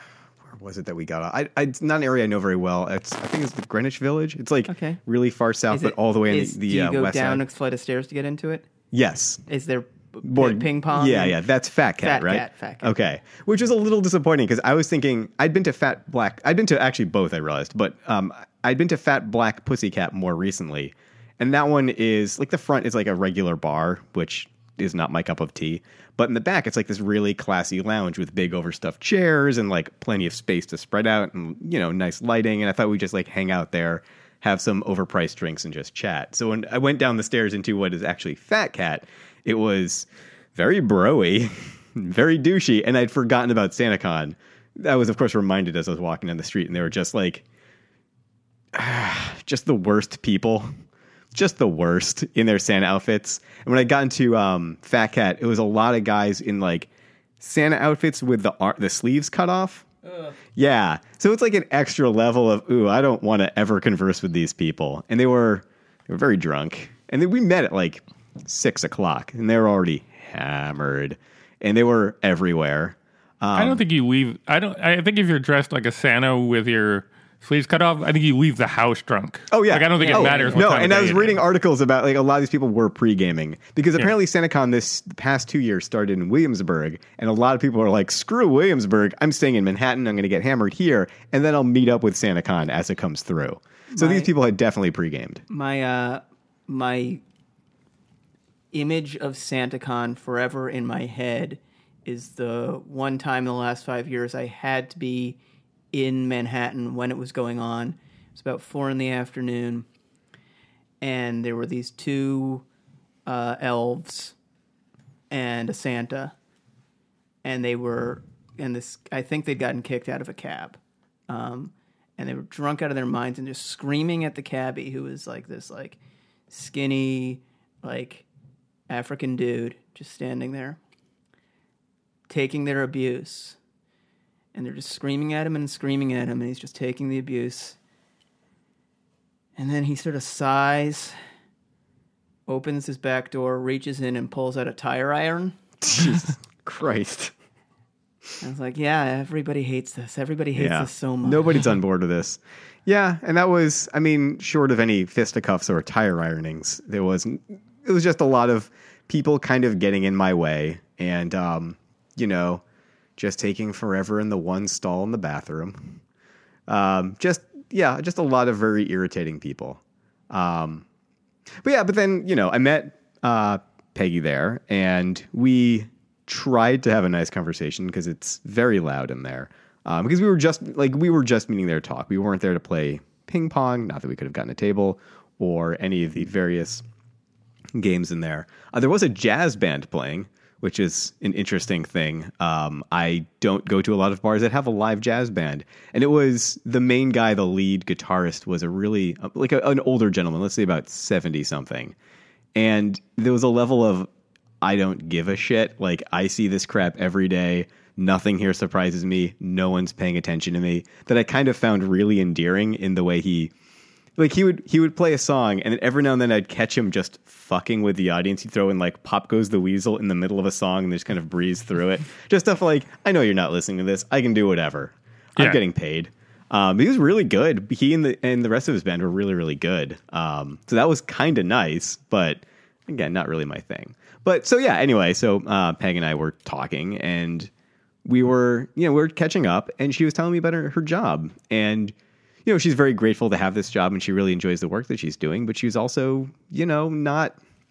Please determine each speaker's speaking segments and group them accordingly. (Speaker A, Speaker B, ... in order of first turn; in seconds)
Speaker A: 0.4-7.4, 8.9-9.4, 10.2-47.4, 48.7-50.7, 51.3-56.9, 57.4-59.9, 60.5-73.8, 79.5-95.4, 145.8-147.3, 150.6-162.6, 163.2-166.0, 166.7-170.8, 171.6-186.8, 187.7-201.9, 202.5-204.1, 204.6-213.5, 214.2-237.5, 238.0-247.4
Speaker B: 4.7-5.0, 5.7-8.7, 9.5-11.4, 12.0-12.9, 80.0-80.7, 93.9-94.3, 95.5-97.2, 98.7-105.4, 105.9-109.8, 111.0-112.6, 113.3-114.3, 115.3-116.3, 117.4-120.8, 121.3-126.0, 126.5-128.2, 128.9-130.8, 132.3-133.6, 134.5-137.8, 139.6-141.1, 142.5-145.6, 148.4-151.6
Speaker C: 73.5-81.4